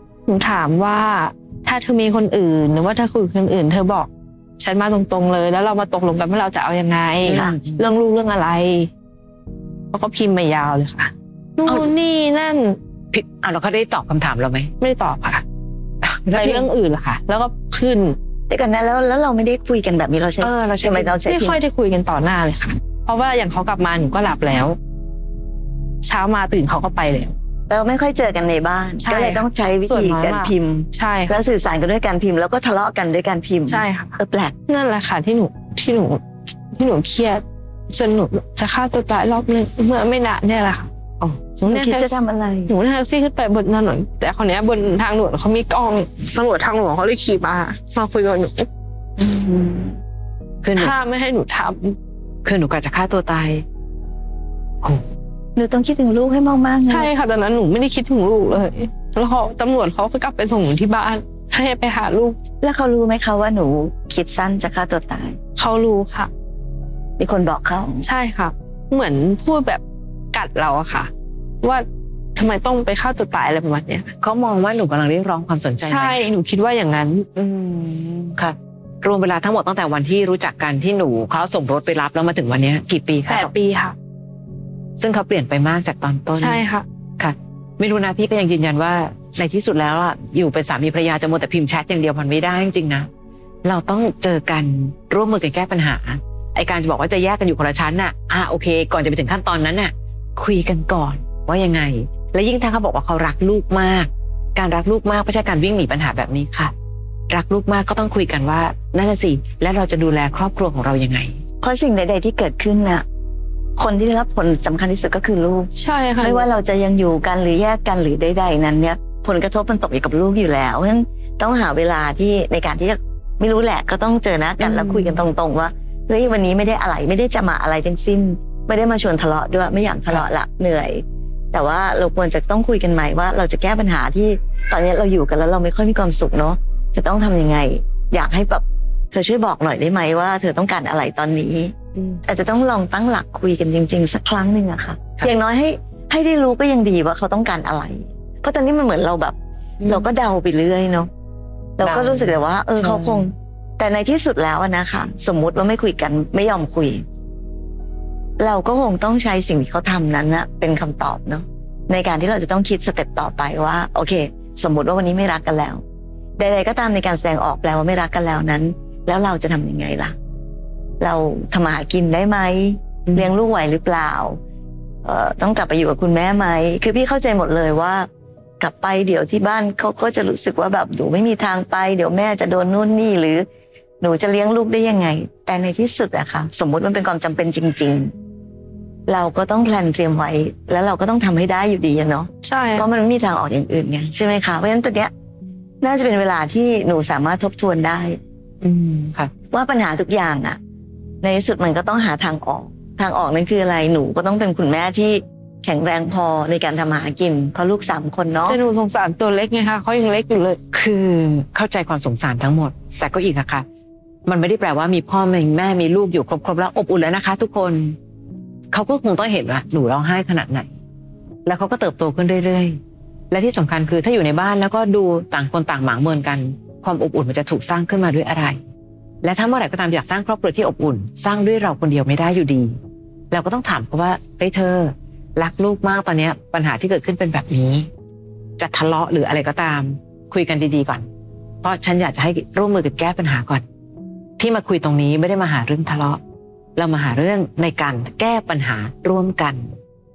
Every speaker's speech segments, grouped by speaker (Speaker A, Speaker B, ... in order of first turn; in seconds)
Speaker A: 0.3-8.9, 9.9-12.8, 14.8-15.4, 16.3-18.2, 21.1-24.8, 26.0-27.3, 29.0-31.4, 33.7-40.9, 41.7-50.0, 50.8-52.0, 56.9-62.4, 65.6-66.3, 68.0-69.8, 70.3-71.1, 72.4-74.1, 75.8-77.3, 83.3-84.0, 86.4-86.8, 115.8-116.5, 124.6-125.2, 192.4-192.9, 208.5-210.6
Speaker B: 7.2-7.9, 13.1-14.7, 16.0-16.7, 20.4-21.1, 50.6-50.9, 52.4-53.6, 74.2-76.2, 77.4-83.5, 85.0-86.7, 87.2-93.1, 93.6-106.7, 107.3-111.4, 141.9-142.2, 149.8-150.1, 151.8-153.3, 173.1-173.3, 198.6-199.3, 210.7-213.7, 214.3-218.0, 218.7-220.7, 221.4-222.8, 223.3-228.6, 229.2-232.8, 233.3-237.9, 238.6-241.1, 241.6-243.6, 244.4-246.2, 246.8-249.7
Speaker C: 18.5-21.6, 27.7-34.5, 41.6-42.7, 55.6-57.1, 62.6-65.4, 67.2-68.1, 111.6-113.0, 113.8-141.7, 142.3-149.4, 149.9-151.1, 151.8-157.1, 158.4-165.8, 166.4-170.2, 171.0-174.4, 175.0-178.1, 178.6-183.4, 184.0-188.1, 189.1-195.1, 195.8-198.2, 199.5-200.6, 201.2-208.6